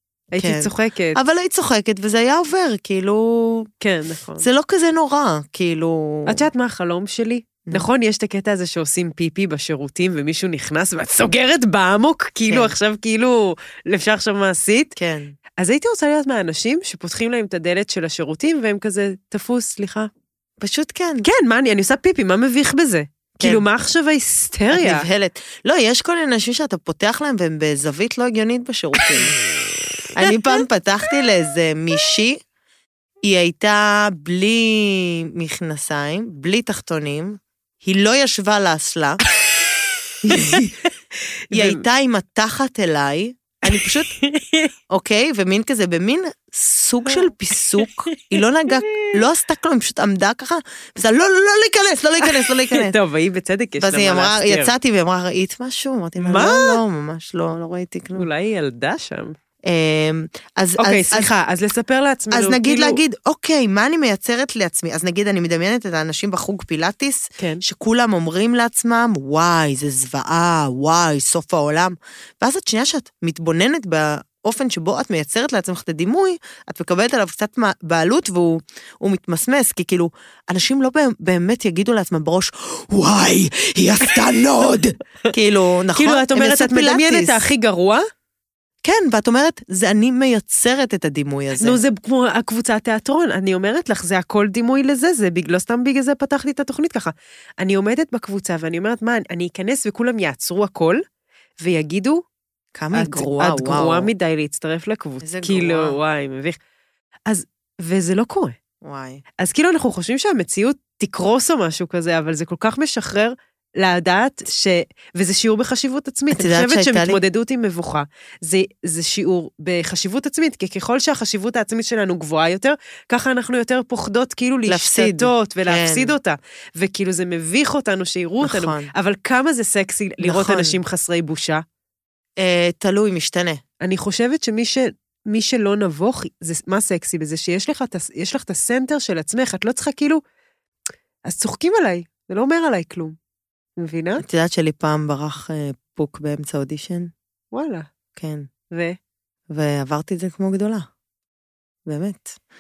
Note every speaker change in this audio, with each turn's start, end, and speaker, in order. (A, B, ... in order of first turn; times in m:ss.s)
0:00.3-0:01.2 A
0:00.4-0:03.7 B
0:03.8-0:04.5 A
0:04.4-0:06.4 B
0:06.2-0:15.0 A
0:12.5-0:12.7 B
0:15.0-0:15.4 B
0:15.6-0:20.1 A
0:20.6-0:21.3 B
0:21.2-0:25.1 A
0:23.4-0:23.6 B
0:24.7-0:29.4 B
0:30.1-0:32.4 B
0:33.2-0:39.2 B
0:40.2-0:40.8 B
0:40.3-0:40.6 A
0:41.5-0:44.1 B
0:41.5-0:41.8 A
0:43.7-0:44.7 A
0:44.9-0:53.0 B
0:47.8-0:48.1 A
0:52.5-0:54.7 A
0:53.8-0:58.3 B
0:56.2-0:56.8 A
0:58.2-0:59.4 A
0:59.6-1:01.3 B
1:00.8-1:03.0 A
1:02.3-1:27.4 B
1:25.9-1:28.0 A
1:28.8-1:31.8 B
1:31.6-1:41.0 A
1:41.6-1:42.2 A
1:42.8-1:44.1 B
1:42.9-1:46.6 A
1:45.2-1:46.0 B
1:47.3-1:48.6 A
1:48.8-1:49.2 B
1:49.4-2:11.6 A
1:56.3-1:57.2 B
2:04.7-2:06.1 B
2:08.4-2:08.9 B
2:10.2-2:10.8 B
2:12.4-2:13.6 B
2:13.8-2:20.2 A
2:21.2-2:23.2 A
2:23.8-2:24.2 A
2:24.2-2:27.1 B
2:27.5-2:27.9 A
2:28.2-2:28.5 B
2:28.7-2:29.0 A
2:29.5-2:30.9 B
2:31.9-2:32.4 B